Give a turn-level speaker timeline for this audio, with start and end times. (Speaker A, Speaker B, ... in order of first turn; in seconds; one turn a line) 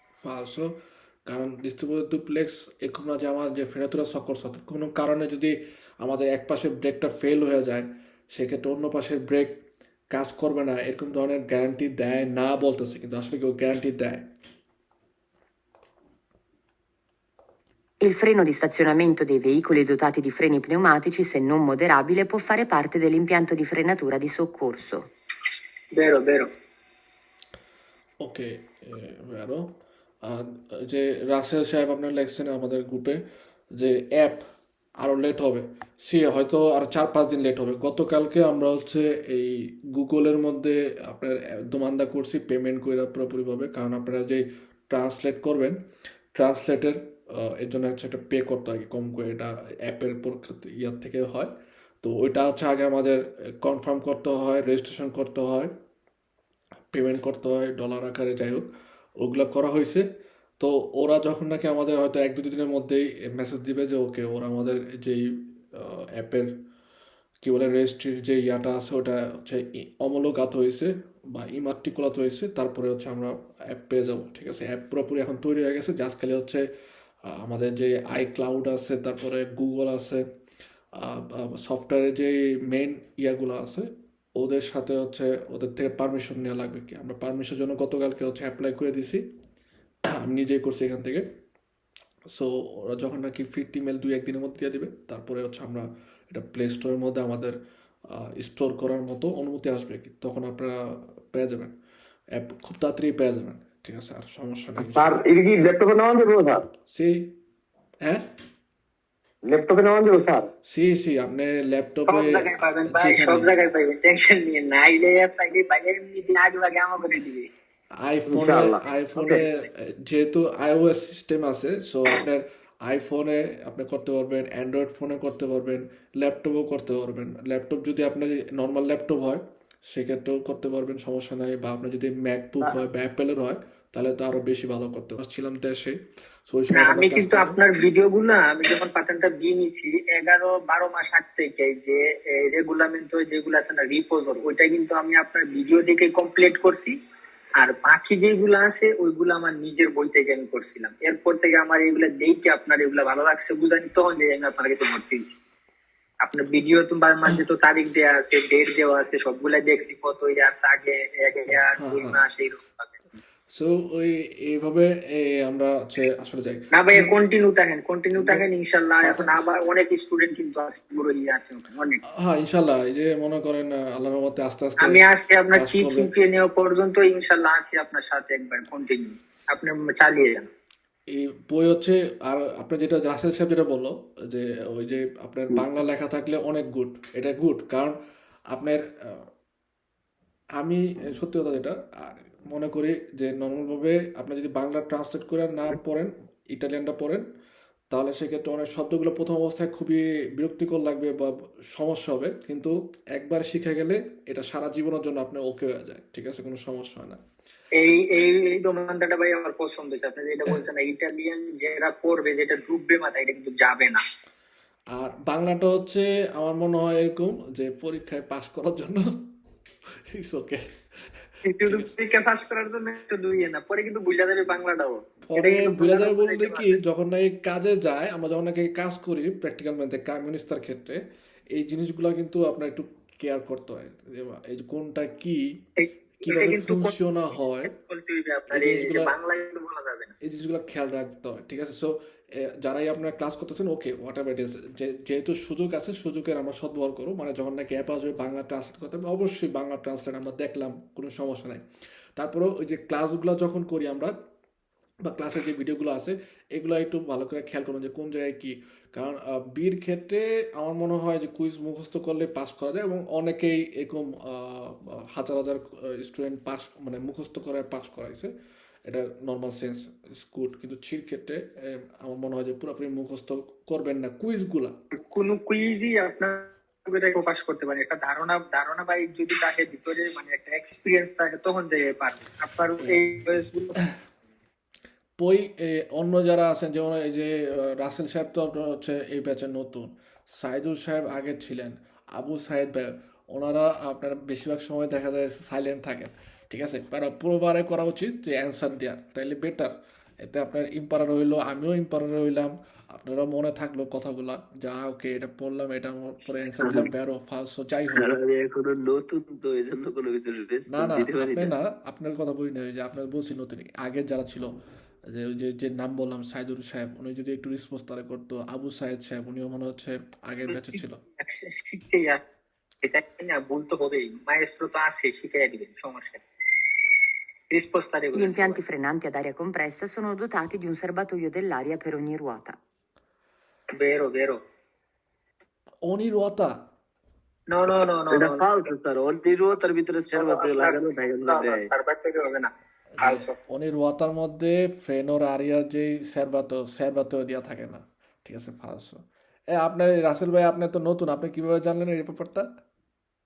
Speaker A: 0.2-14.3
Speaker B: 18.0-25.1
Speaker C: 25.9-26.5
Speaker A: 28.2-33.2
Speaker A: 33.8-34.4
Speaker A: 35.0-45.8
Speaker A: 46.4-51.5
Speaker A: 52.0-55.7
Speaker A: 56.9-58.7
Speaker A: 59.2-60.0
Speaker A: 60.6-66.5
Speaker A: 67.4-76.6
Speaker A: 77.2-80.2
Speaker A: 81.0-89.2
Speaker A: 90.1-91.2
Speaker A: 92.3-97.5
Speaker A: 98.1-101.7
Speaker A: 102.3-105.2
Speaker D: 104.8-106.7
Speaker A: 106.8-107.4
Speaker D: 109.5-110.5
Speaker A: 110.6-113.5
Speaker C: 112.1-117.5
Speaker A: 118.0-137.6
Speaker D: 118.3-119.4
Speaker C: 136.7-146.9
Speaker C: 147.6-155.4
Speaker C: 156.2-163.0
Speaker A: 161.8-162.2
Speaker A: 163.5-167.1
Speaker C: 166.7-172.0
Speaker A: 168.2-168.4
Speaker A: 169.0-169.3
Speaker A: 172.1-176.1
Speaker C: 174.8-180.5
Speaker A: 181.1-187.9
Speaker A: 188.5-189.3
Speaker A: 190.6-197.2
Speaker A: 197.9-207.2
Speaker C: 207.7-214.0
Speaker A: 214.9-219.3
Speaker A: 220.1-221.9
Speaker C: 221.4-226.8
Speaker A: 225.3-231.0
Speaker A: 231.5-235.7
Speaker C: 235.8-236.9
Speaker A: 236.2-237.7
Speaker C: 237.7-240.1
Speaker A: 238.5-239.1
Speaker A: 240.2-251.6
Speaker A: 252.2-254.1
Speaker A: 255.0-268.3
Speaker A: 268.8-274.8
Speaker C: 274.9-283.8
Speaker A: 285.2-308.1
Speaker E: 306.6-306.9
Speaker E: 307.9-311.5
Speaker A: 310.7-314.5
Speaker A: 315.1-321.0
Speaker C: 320.5-322.2
Speaker C: 322.8-326.2
Speaker C: 327.5-328.6
Speaker B: 328.1-332.6
Speaker C: 333.7-334.4
Speaker A: 335.8-336.7
Speaker C: 337.5-338.5
Speaker E: 338.1-341.7
Speaker C: 340.1-343.4
Speaker A: 343.0-352.5